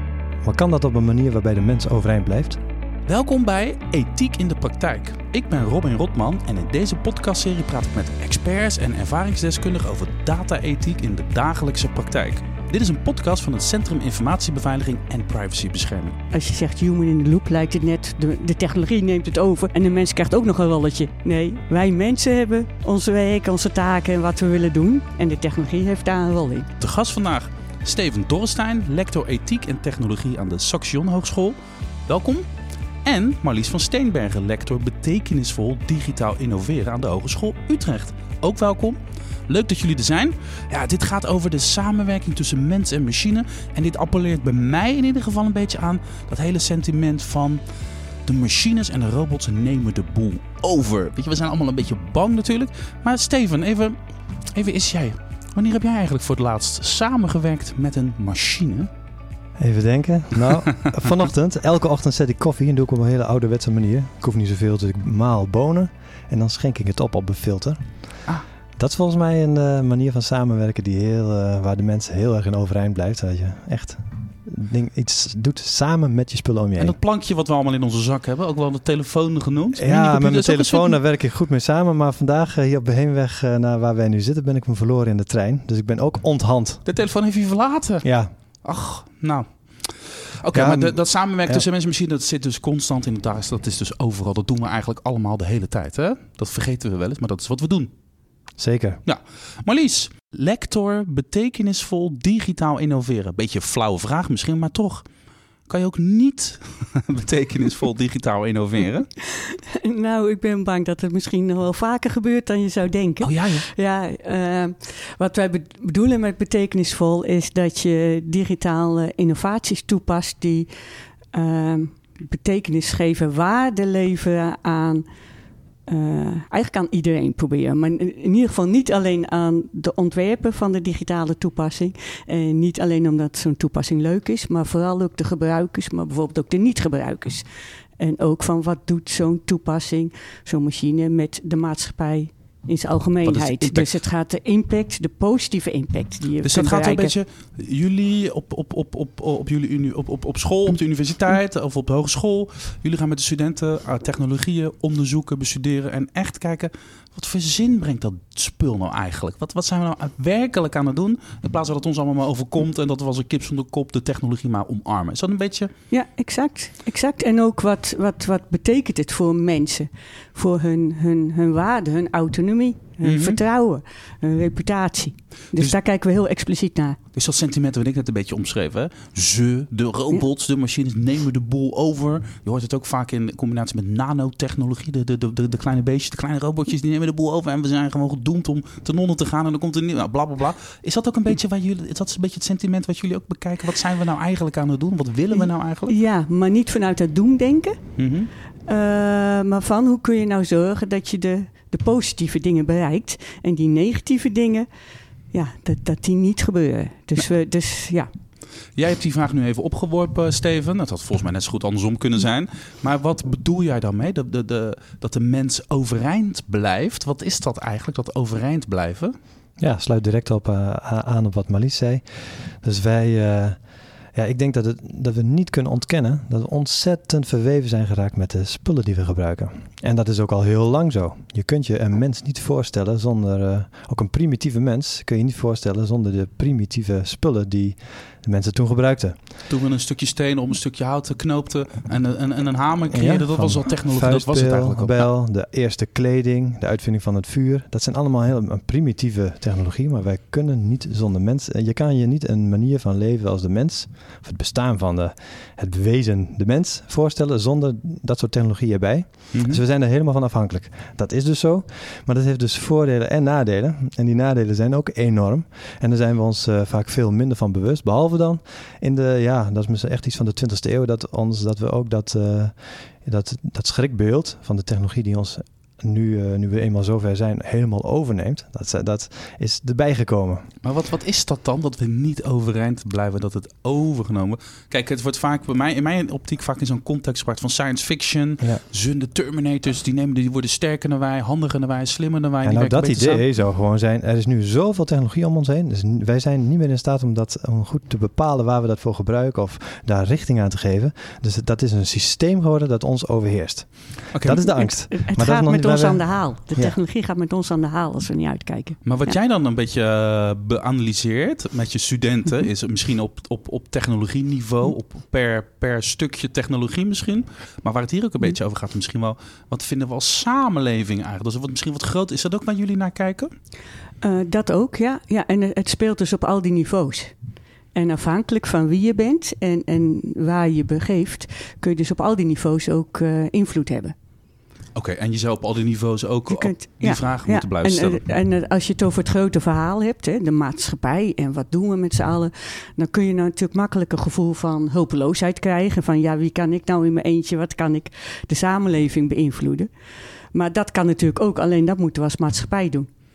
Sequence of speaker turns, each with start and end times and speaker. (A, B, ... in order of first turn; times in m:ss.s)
0:00.4-0:02.6 A
0:03.1-0:16.2 B
0:16.3-0:26.7 C
0:26.8-0:32.5 B
0:33.0-0:47.6 B
0:48.3-0:54.0 B
0:54.5-0:58.9 B
0:59.6-1:07.8 A
1:08.8-1:17.0 A
1:16.8-1:21.0 B
1:19.8-1:26.8 A
1:26.8-1:28.1 B
1:28.0-1:28.3 A
1:28.6-1:37.9 B
1:30.5-1:31.6 A
1:38.6-1:39.0 A
1:39.0-1:45.0 B
1:45.7-1:49.1 B
1:49.4-2:00.7 C
1:53.2-1:53.7 B
2:01.3-2:05.0 C
2:05.9-2:17.4 C
2:18.0-2:27.1 C
2:23.2-2:23.9 B
2:26.4-2:45.7 B
2:45.9-2:57.0 C
2:53.0-2:53.4 B
2:57.1-3:15.9 B
3:15.3-3:17.8 C
3:18.0-3:18.3 B
3:18.7-3:24.7 C
3:25.3-3:28.1 C
3:28.8-3:39.1 B
3:39.6-3:43.6 A
3:44.1-3:59.2 A
3:59.5-4:05.1 B
4:02.9-4:40.5 A
4:19.3-4:19.6 B
4:40.6-4:53.2 B
4:52.4-5:06.8 A
5:04.1-5:04.6 B
5:04.6-5:09.1 C
5:08.8-5:23.3 B
5:24.0-5:27.1 C
5:27.8-5:33.9 C
5:34.8-5:38.0 B
5:36.3-5:49.7 C
5:50.3-5:52.9 C